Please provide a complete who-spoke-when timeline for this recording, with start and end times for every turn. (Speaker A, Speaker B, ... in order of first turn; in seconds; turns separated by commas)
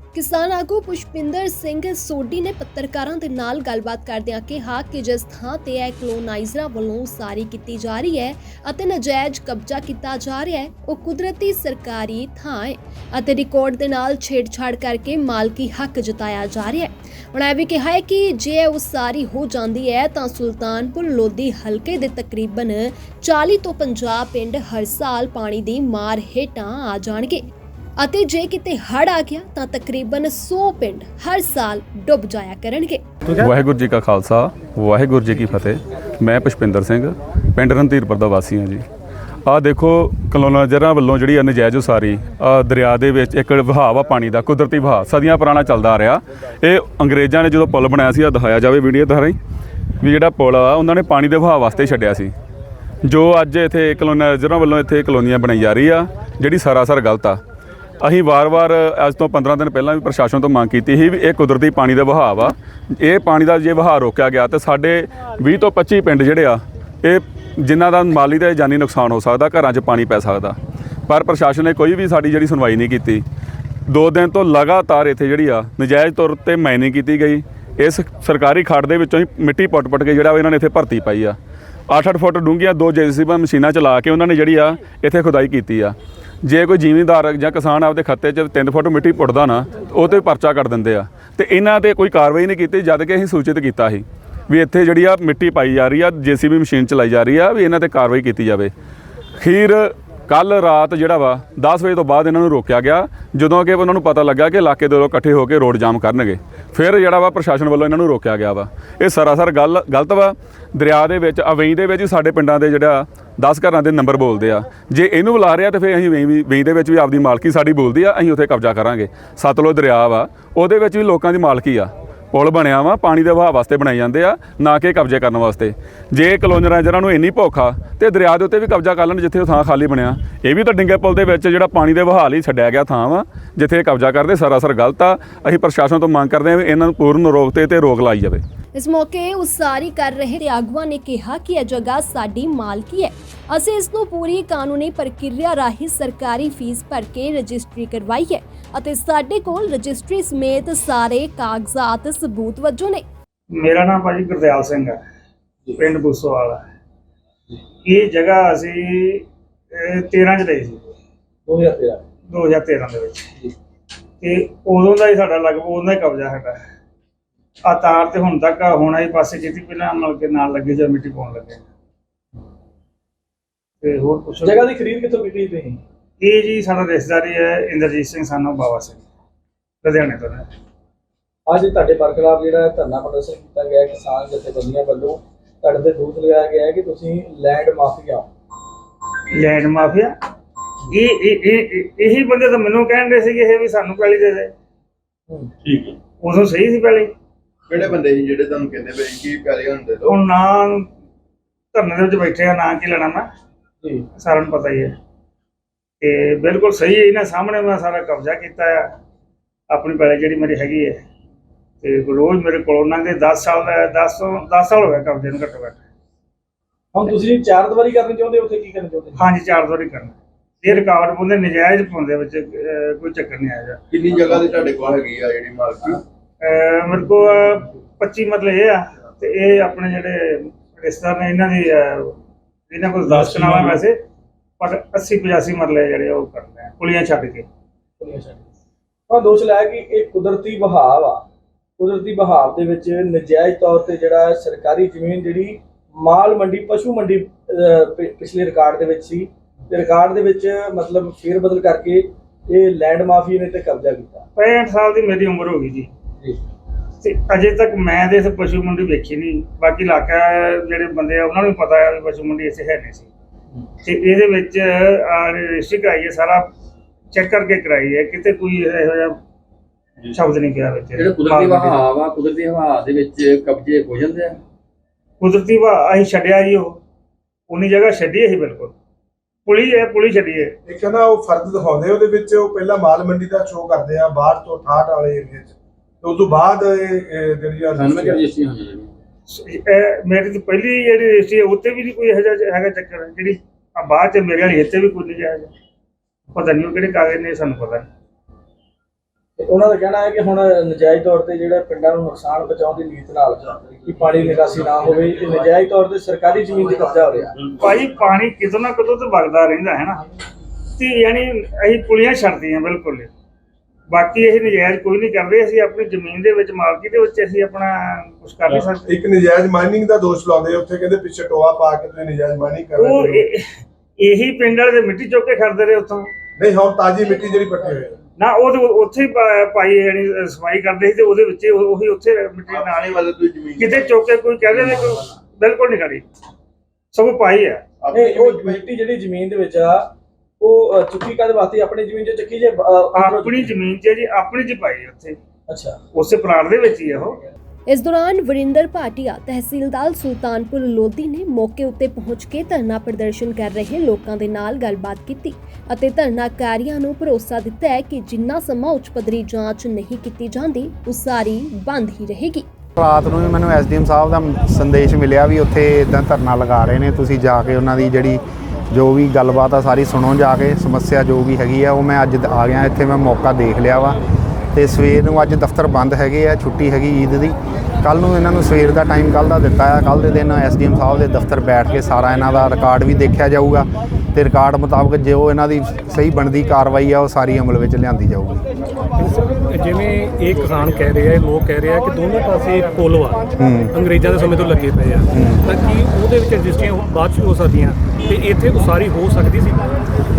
Speaker A: 0.1-27.4, Speaker A: 28.0-33.0, Speaker B: 33.4-38.8, Speaker B: 39.5-49.4, Speaker B: 50.0-52.3, Speaker B: 53.0-57.4, Speaker B: 58.0-70.6, Speaker B: 71.1-73.2, Speaker B: 73.9-81.4, Speaker B: 81.9-98.7, Speaker B: 99.4-138.4, Speaker A: 138.7-153.0, Speaker C: 153.6-155.0, Speaker C: 155.8-156.6, Speaker C: 157.8-160.8, Speaker D: 161.5-162.0, Speaker C: 162.3-163.3, Speaker C: 164.2-166.6, Speaker C: 167.6-171.6, Speaker C: 173.8-174.7, Speaker D: 174.4-175.8, Speaker C: 176.2-179.0, Speaker C: 179.8-180.5, Speaker D: 181.5-188.3, Speaker C: 189.3-190.1, Speaker C: 190.9-194.5, Speaker E: 195.6-196.0, Speaker C: 196.2-197.1, Speaker E: 197.7-200.1, Speaker C: 200.1-200.9, Speaker C: 201.7-203.2, Speaker C: 204.2-204.9, Speaker C: 206.0-208.9, Speaker C: 209.7-211.0, Speaker C: 211.8-215.8, Speaker D: 216.9-219.2, Speaker C: 219.2-223.8, Speaker E: 223.9-226.0, Speaker C: 226.4-232.2, Speaker C: 232.7-234.0, Speaker C: 234.6-237.4, Speaker D: 238.0-238.4, Speaker D: 239.1-241.2, Speaker D: 241.8-254.2, Speaker C: 254.3-255.9, Speaker C: 257.0-263.1, Speaker C: 263.8-266.5, Speaker C: 267.1-269.2, Speaker C: 270.1-271.8, Speaker F: 271.0-274.4, Speaker C: 275.2-276.8, Speaker C: 277.5-278.7, Speaker C: 279.4-280.6, Speaker G: 280.6-288.2, Speaker F: 287.7-288.9, Speaker C: 289.3-295.5, Speaker C: 296.3-297.9, Speaker D: 299.4-307.3, Speaker C: 307.6-310.1, Speaker C: 310.8-313.1, Speaker C: 313.9-318.9, Speaker G: 318.5-323.2, Speaker C: 322.8-323.4, Speaker C: 324.0-326.1, Speaker G: 326.4-327.9, Speaker C: 328.2-333.0, Speaker E: 332.5-334.9, Speaker C: 333.6-336.0, Speaker C: 336.9-337.6, Speaker E: 337.8-338.7, Speaker D: 337.9-343.6, Speaker C: 342.9-345.2, Speaker D: 345.5-345.8, Speaker C: 345.9-347.2, Speaker A: 347.7-362.5, Speaker H: 362.8-373.9, Speaker H: 374.5-388.4, Speaker I: 389.0-399.7, Speaker H: 393.4-393.8, Speaker H: 395.1-395.4